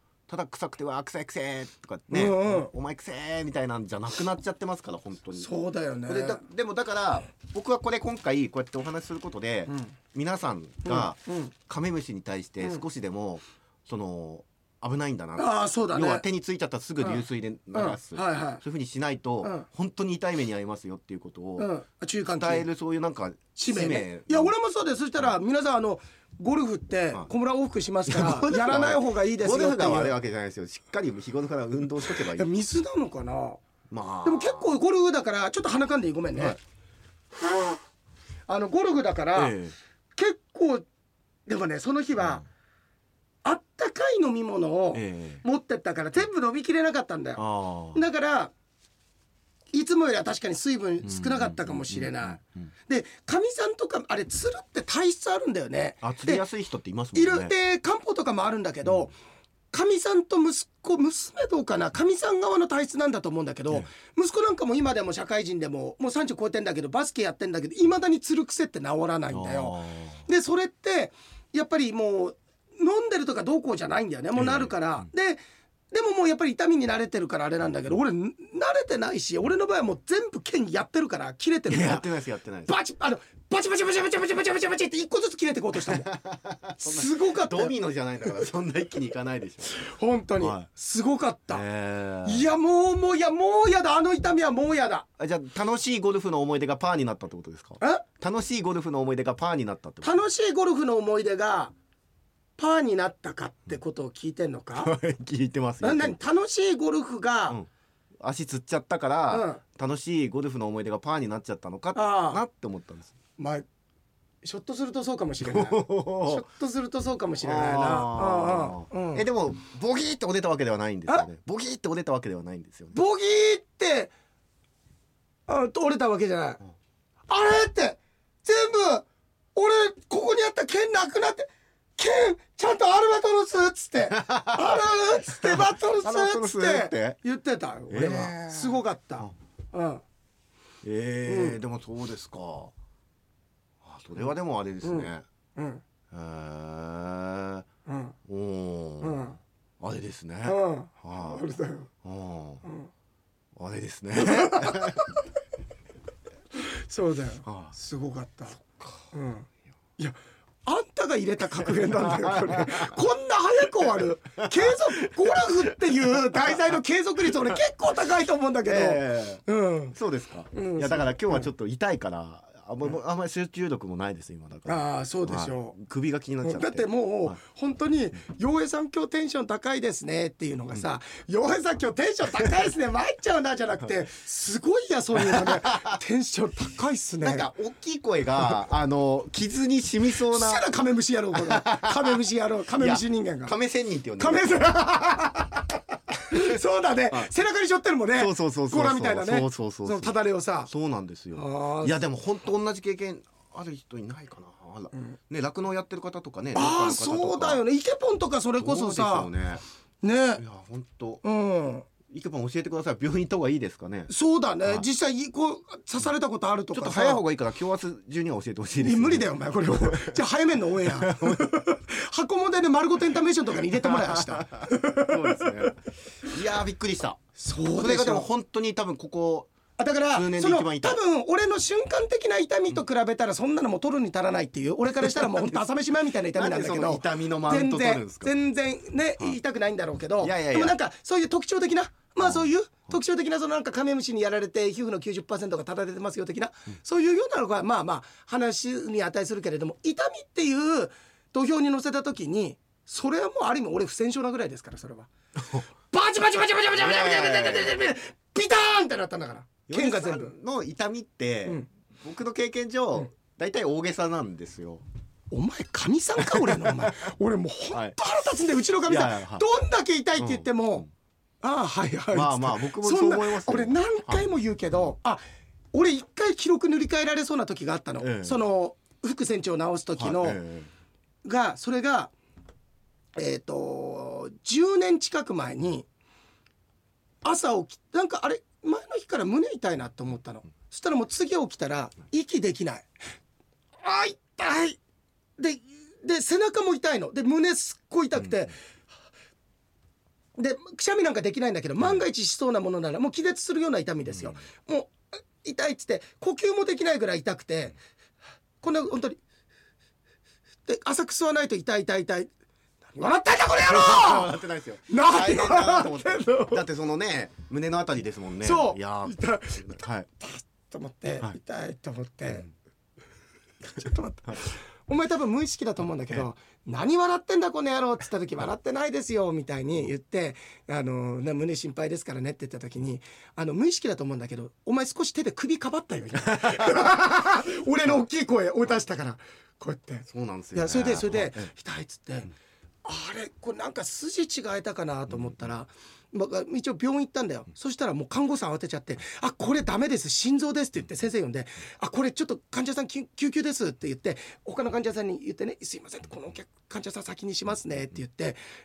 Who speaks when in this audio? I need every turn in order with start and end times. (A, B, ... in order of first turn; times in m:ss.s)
0:00.3-0:05.5 A
0:02.1-0:02.7 B
0:05.4-0:06.4 B
0:06.1-0:21.7 A
0:09.7-0:10.0 B
0:10.8-0:11.5 B
0:15.4-0:16.2 B
0:17.0-0:18.6 B
0:21.6-0:22.7 B
0:22.4-0:24.5 A
0:23.6-0:30.2 B
0:28.1-0:32.5 A
0:32.1-0:33.6 B
0:33.9-0:34.8 A
0:34.2-0:36.6 B
0:37.4-0:37.8 B
0:38.5-0:39.6 B
0:39.4-0:39.8 A
0:40.2-0:40.9 B
0:41.5-0:42.4 B
0:43.4-0:47.4 B
0:44.9-0:45.4 A
0:47.4-0:48.0 A
0:47.9-0:48.5 B
0:49.7-0:56.4 B
0:51.0-0:52.7 A
0:56.0-0:57.5 A
0:57.1-0:59.1 B
0:59.7-1:15.4 B
1:09.3-1:10.2 A
1:14.4-1:15.1 A
1:15.9-1:22.1 B
1:21.7-1:22.7 A
1:22.7-1:26.1 B
1:25.8-1:29.8 A
1:26.8-1:27.7 B
1:29.7-1:31.6 B
1:30.4-1:30.7 A
1:31.5-1:32.5 A
1:32.2-1:35.1 B
1:35.2-1:40.2 A
1:40.0-1:41.7 B
1:42.6-1:44.9 B
1:44.8-1:46.2 A
1:45.8-1:47.6 B
1:48.2-1:53.1 A
1:49.3-1:49.6 B
1:52.0-1:52.4 B
1:53.4-1:53.7 B
1:54.4-1:59.2 B
1:55.4-1:56.5 A
1:57.4-2:03.0 A
2:02.9-2:04.1 B
2:05.5-2:06.6 B
2:07.3-2:20.0 B
2:14.1-2:17.2 A
2:17.9-2:19.3 A
2:20.8-2:22.7 A
2:21.3-2:21.6 B
2:23.8-2:25.2 A
2:24.8-2:25.8 B
2:26.1-2:27.7 A
2:27.9-2:28.2 B
2:28.3-2:29.3 A
2:29.0-2:29.4 B
2:29.8-2:31.4 A
2:30.5-2:31.9 B
2:32.0-2:32.6 A
2:33.6-2:35.1 A
2:34.2-2:35.2 B
2:36.6-2:38.6 B
2:37.4-2:37.7 A
2:39.1-2:39.5 B
2:40.0-2:50.0 B
2:41.7-2:43.0 A
2:44.4-2:46.8 A
2:48.7-2:49.4 A
2:49.9-2:57.4 A
2:50.5-2:51.5 B
2:54.7-2:55.8 B
2:56.4-3:07.5 B
3:05.2-3:06.0 A
3:07.2-3:10.7 A
3:10.2-3:13.6 B
3:11.3-3:12.2 A
3:12.8-3:14.7 A
3:14.2-3:15.7 B
3:16.3-3:20.7 B
3:18.2-3:20.2 A
3:20.7-3:27.6 A
3:21.4-3:22.0 B
3:26.6-3:29.3 B
3:28.6-3:29.6 A
3:30.0-3:30.4 B
3:30.4-3:31.2 A
3:31.2-3:31.9 B
3:32.1-3:34.1 A
3:34.1-3:37.2 B
3:36.7-3:40.2 A
3:38.8-3:45.7 B
3:40.8-3:41.6 A
3:43.7-3:47.2 A
3:47.4-3:48.3 B
3:47.8-3:49.5 A
3:49.8-4:15.1 B
3:50.1-3:51.0 A
3:55.0-3:55.6 A
3:56.3-3:58.3 A
4:00.2-4:00.8 A
4:02.2-4:02.5 A
4:15.9-4:20.3 B
4:16.8-4:17.8 A
4:19.7-4:24.8 A
4:25.3-4:30.9 B
4:26.3-4:26.9 A
4:28.9-4:29.4 A
4:30.2-4:30.9 A
4:31.4-4:35.2 B
4:32.1-4:34.2 A
4:35.7-4:40.4 B
4:38.0-4:38.4 A
4:40.0-4:40.7 A
4:41.2-4:42.1 B
4:43.2-4:45.9 B
4:47.2-4:52.9 B
4:53.8-4:54.8 B
4:55.4-4:58.5 B
5:00.4-5:07.8 B
5:08.6-5:09.2 B
5:10.7-5:12.3 B
5:12.9-5:14.4 B
5:13.6-5:20.1 A
5:14.9-5:16.6 B
5:18.4-5:22.5 B
5:23.7-5:42.3 B
5:36.3-5:36.8 A
5:40.1-5:41.5 A
5:42.8-5:58.4 B